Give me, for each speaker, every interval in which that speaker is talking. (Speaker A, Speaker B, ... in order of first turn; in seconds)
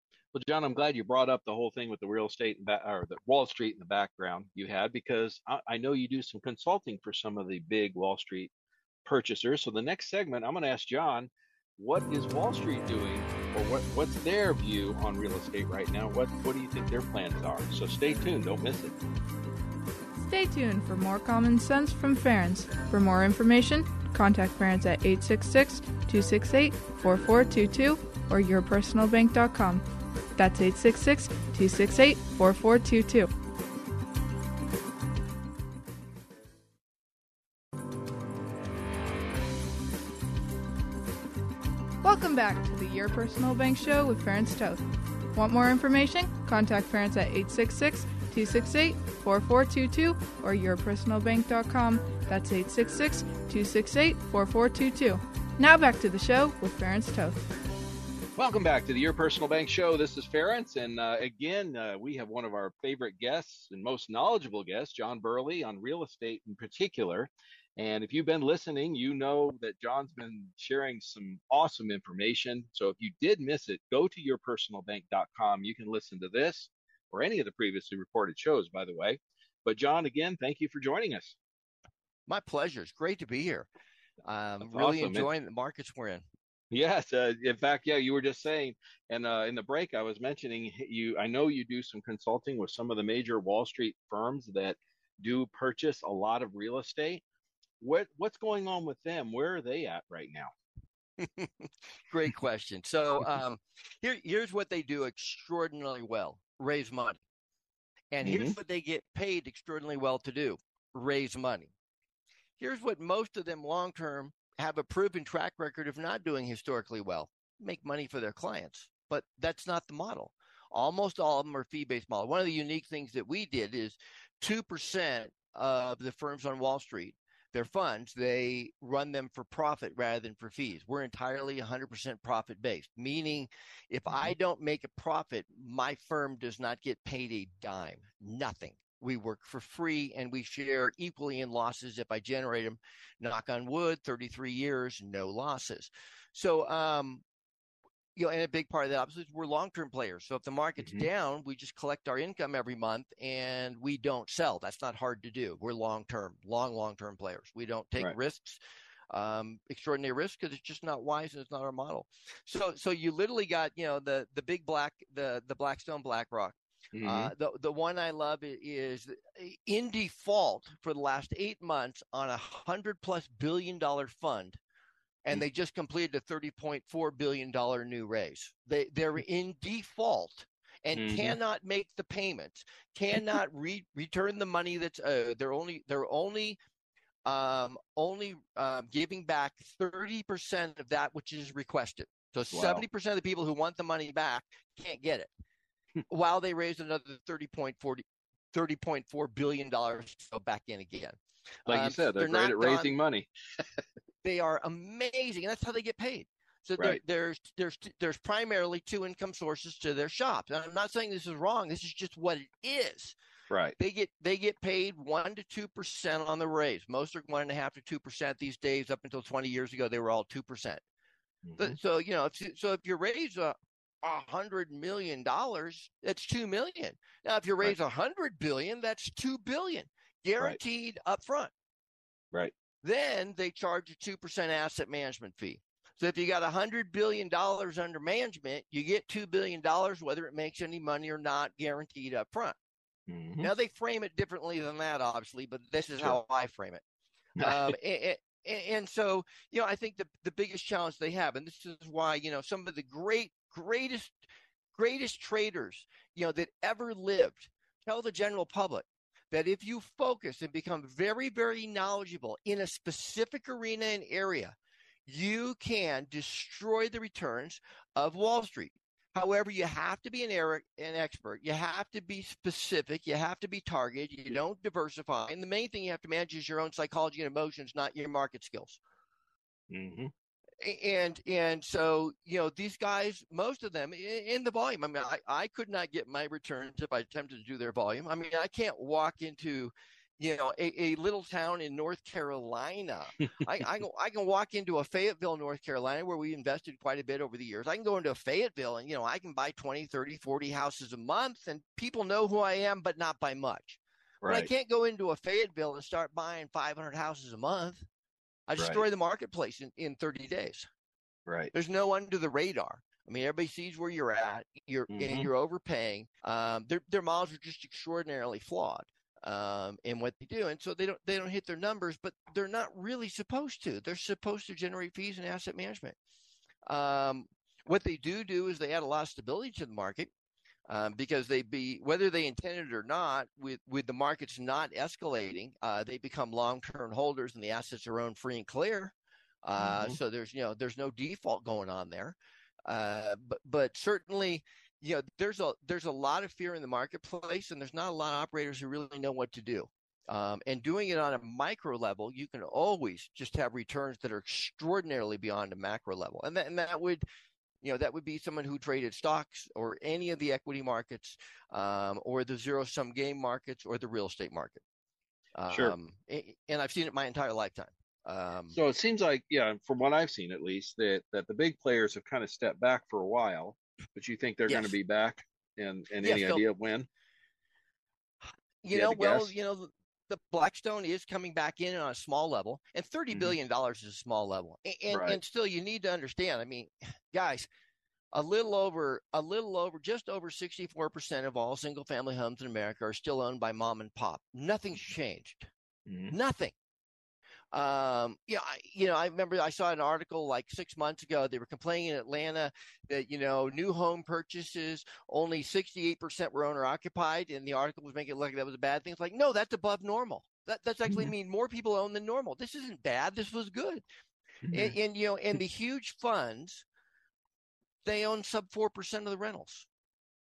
Speaker A: 0.3-8.5, 9.1-18.9, 58.4-81.4, 84.7-85.3, 86.7-97.2, 97.8-100.5, 108.2-108.6, 150.8-151.1, 166.9-167.3, 180.9-181.4, 192.5-192.8, 201.7-203.3, 213.5-213.8, 221.4-221.8, 243.1-243.5, 247.4-247.8, 279.7-280.1, 304.2-304.5, 314.9-315.3, 339.6-340.0, 368.5-376.9, 378.7-379.3, 384.9-385.2, 395.9-396.1, 410.9-411.1, 414.5-414.7
Speaker B: 20.2-29.9, 30.4-33.3, 42.0-44.8, 45.3-57.4
Speaker C: 82.3-83.7, 84.2-86.2, 101.2-107.2, 108.1-111.7, 112.6-147.2, 148.2-174.6, 175.2-186.6, 187.2-195.3, 196.1-202.9, 204.2-213.2, 213.8-220.8, 221.6-231.5, 232.8-242.6, 243.4-246.8, 247.4-254.2, 254.7-264.6, 265.1-278.8, 280.6-307.9, 308.5-310.7, 311.5-326.0, 326.7-330.1, 330.7-357.1, 357.6-364.6, 365.4-368.6, 374.5-374.7, 376.0-376.4, 378.6-387.5, 388.1-395.5, 396.1-396.5, 397.5-413.8, 414.5-416.6, 417.9-419.7